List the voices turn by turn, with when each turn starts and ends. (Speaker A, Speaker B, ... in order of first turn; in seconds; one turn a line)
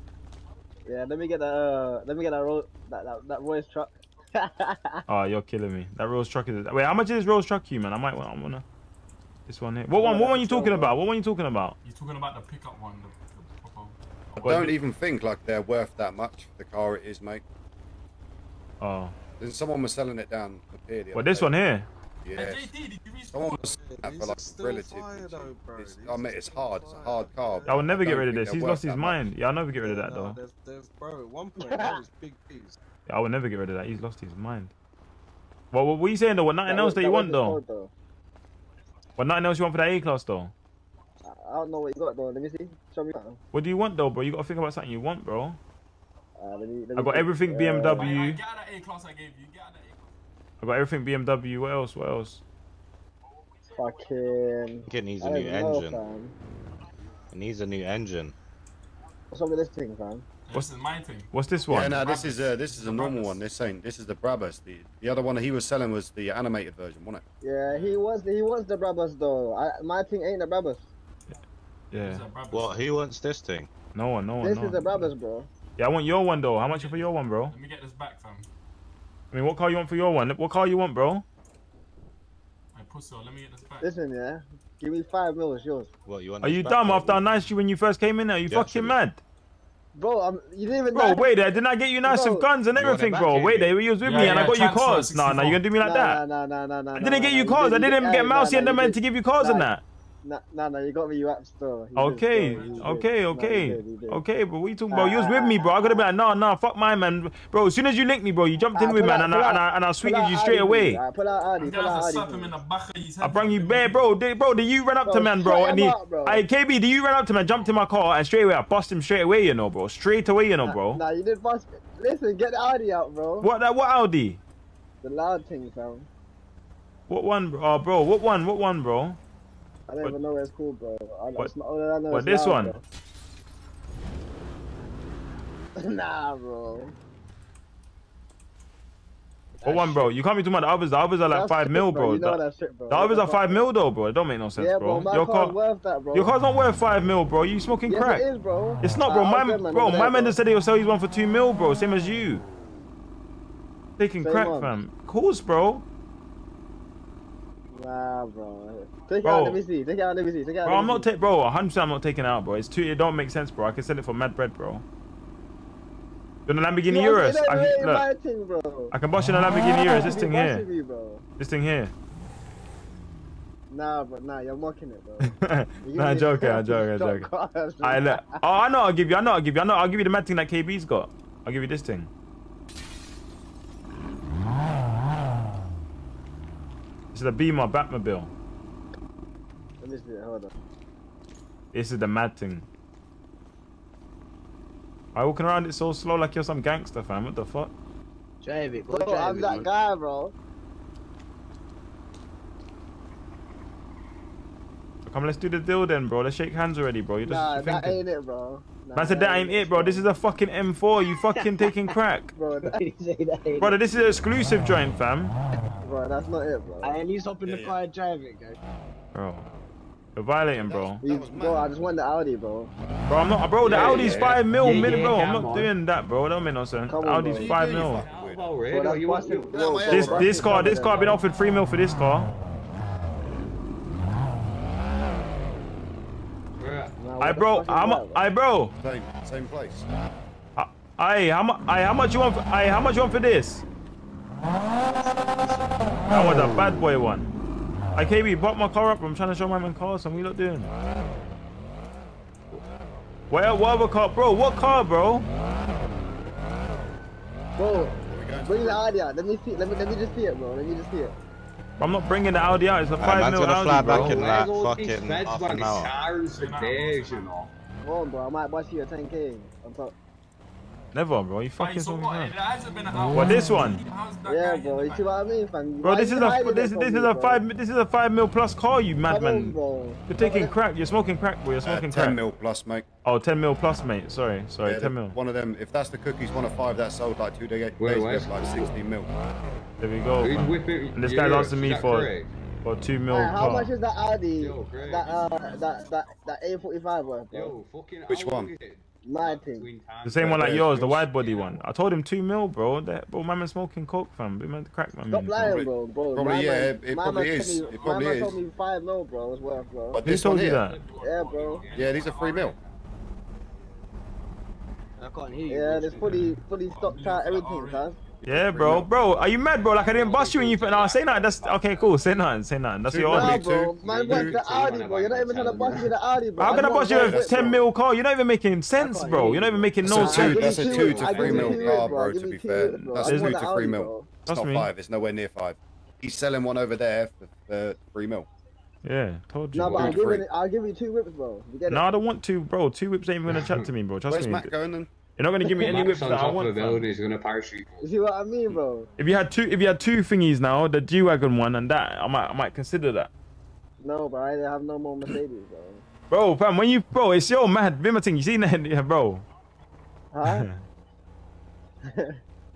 Speaker A: 0.9-5.0
Speaker B: 5.1-8.6
Speaker B: 9.5-11.8
Speaker A: 9.9-11.0
Speaker C: 11.8-14.8
Speaker D: 14.4-17.4
Speaker B: 18.8-19.1
Speaker D: 19.4-21.6
Speaker B: 21.1-21.9
Speaker D: 22.2-22.7
Speaker C: 22.4-23.6
Speaker D: 23.3-29.2
Speaker E: 23.5-27.9
Speaker B: 27.7-30.4
Speaker E: 29.8-32.8
Speaker A: 31.6-32.0
Speaker B: 33.1-34.7
Speaker B: 35.7-37.6
Speaker A: 36.7-37.9
Speaker B: 39.2-40.5
Speaker A: 41.2-43.4
Speaker B: 43.5-45.6
Speaker A: 46.4-48.1
Speaker B: 47.0-48.4
Speaker C: 48.0-50.1
Speaker B: 50.6-52.4
Speaker A: 53.8-56.4
Speaker F: 54.9-56.0
Speaker F: 57.3-58.4
Speaker A: 59.3-60.2
Speaker C: 60.5-61.3
Speaker B: 61.3-62.0
Speaker D: 61.7-67.2
Speaker C: 61.9-63.4
Speaker A: 67.4-70.9
Speaker C: 67.7-68.0
Speaker B: 71.9-72.2
Speaker C: 72.0-72.8
Speaker F: 72.5-73.7
Speaker B: 73.9-75.1
Speaker A: 74.4-75.5
Speaker B: 75.8-77.5
Speaker C: 76.7-78.5
Speaker B: 79.3-81.2
Speaker C: 82.7-83.9
Speaker A: 83.8-85.9
Speaker F: 86.1-87.2
Speaker B: 86.4-89.2
Speaker F: 88.5-89.0
Speaker A: 89.9-92.5
Speaker B: 90.9-96.2
Speaker F: 92.8-93.7
Speaker C: 94.0-95.6
Speaker A: 95.8-99.7
Speaker B: 97.0-99.8
Speaker A: 100.2-104.2
Speaker B: 102.0-111.0
Speaker C: 102.5-102.9
Speaker A: 104.9-106.0
Speaker A: 108.7-112.6
Speaker C: 111.6-114.0
Speaker B: 113.2-121.0
Speaker A: 115.0-116.4
Speaker A: 120.6-123.5
Speaker B: 123.4-124.4
Speaker A: 125.0-126.1
Speaker B: 127.1-129.2
Speaker A: 129.9-132.8
Speaker B: 132.1-132.8
Speaker A: 135.8-136.9
Speaker A: 139.6-140.1
Speaker B: 139.6-142.4
Speaker A: 141.3-143.7
Speaker B: 142.9-145.6
Speaker A: 144.6-146.3
Speaker B: 146.1-148.2
Speaker A: 147.9-150.4
Speaker B: 148.8-152.4
Speaker B: 154.0-155.8
Speaker A: 154.2-154.8
Speaker A: 157.7-161.1
Speaker B: 159.2-159.6
Speaker B: 160.6-164.8
Speaker B: 166.5-168.1
Speaker A: 166.9-168.9
Speaker B: 168.9-170.7
Speaker A: 169.8-171.2
Speaker B: 171.4-171.9
Speaker A: 173.7-178.4
Speaker B: 175.2-177.3
Speaker B: 177.8-182.1
Speaker B: 187.1-188.3
Speaker A: 189.8-190.5
Speaker B: 191.7-192.7
Speaker B: 195.2-197.7
Speaker G: 198.4-199.7
Speaker A: 198.9-200.3
Speaker B: 205.1-208.0
Speaker A: 207.2-210.1
Speaker B: 208.9-212.3
Speaker A: 212.3-212.8
Speaker G: 212.6-213.8
Speaker B: 213.6-215.3
Speaker A: 215.8-217.0
Speaker G: 216.8-218.6
Speaker D: 217.4-217.8
Speaker B: 219.2-219.5
Speaker B: 220.2-221.0
Speaker D: 220.6-221.8
Speaker A: 221.0-222.7
Speaker B: 223.1-228.1
Speaker H: 223.6-225.8
Speaker A: 226.9-227.5
Speaker D: 227.3-228.6
Speaker H: 228.0-230.2
Speaker A: 228.7-231.2
Speaker D: 229.5-230.3
Speaker B: 229.9-232.3
Speaker H: 236.6-237.0
Speaker A: 237.0-238.3
Speaker B: 237.2-238.7
Speaker D: 238.8-239.9
Speaker B: 240.6-243.6
Speaker E: 244.7-246.1
Speaker B: 246.1-247.3
Speaker B: 247.9-250.7
Speaker B: 253.3-255.3
Speaker A: 257.6-261.1
Speaker D: 257.7-258.8
Speaker B: 261.8-264.1
Speaker F: 263.0-265.9
Speaker H: 263.8-267.5
Speaker C: 266.3-267.5
Speaker A: 267.8-269.9
Speaker B: 270.9-272.4
Speaker C: 271.6-275.1
Speaker B: 273.1-273.8
Speaker A: 274.2-277.4
Speaker B: 275.8-279.6
Speaker A: 279.1-280.6
Speaker B: 280.1-282.2
Speaker D: 281.6-282.9
Speaker B: 283.1-285.2
Speaker D: 284.6-289.1
Speaker H: 287.8-288.7
Speaker B: 289.8-292.1
Speaker H: 290.2-292.3
Speaker B: 292.6-293.7
Speaker A: 293.1-297.6
Speaker H: 294.3-295.4
Speaker C: 294.8-296.4
Speaker H: 297.3-301.7
Speaker D: 298.1-298.5
Speaker A: 299.1-299.7
Speaker B: 300.1-305.6
Speaker D: 300.2-301.0
Speaker A: 305.1-310.0
Speaker D: 305.4-308.4
Speaker C: 307.5-308.4
Speaker D: 309.9-310.6
Speaker B: 310.0-310.8
Speaker C: 310.7-312.3
Speaker A: 311.0-311.6
Speaker H: 311.5-312.8
Speaker D: 311.7-312.6
Speaker G: 315.0-316.1
Speaker A: 315.5-317.9
Speaker C: 316.0-317.9
Speaker D: 318.2-318.9
Speaker B: 318.2-323.5
Speaker H: 319.6-322.3
Speaker D: 322.9-324.4
Speaker A: 323.1-327.6
Speaker H: 323.8-326.6
Speaker B: 326.4-330.6
Speaker D: 326.9-327.6
Speaker A: 328.8-334.1
Speaker D: 329.8-338.3
Speaker H: 330.9-331.9
Speaker B: 333.0-333.4
Speaker B: 334.3-334.7
Speaker B: 338.8-339.9
Speaker A: 339.6-341.9
Speaker H: 339.6-340.1
Speaker D: 339.8-340.2
Speaker B: 341.7-344.5
Speaker H: 343.3-343.7
Speaker D: 344.1-344.9
Speaker B: 345.2-346.8
Speaker H: 345.6-347.9
Speaker A: 347.8-348.9
Speaker B: 349.0-353.1
Speaker A: 353.8-355.8
Speaker B: 356.1-359.2
Speaker A: 360.1-360.4
Speaker B: 360.3-360.6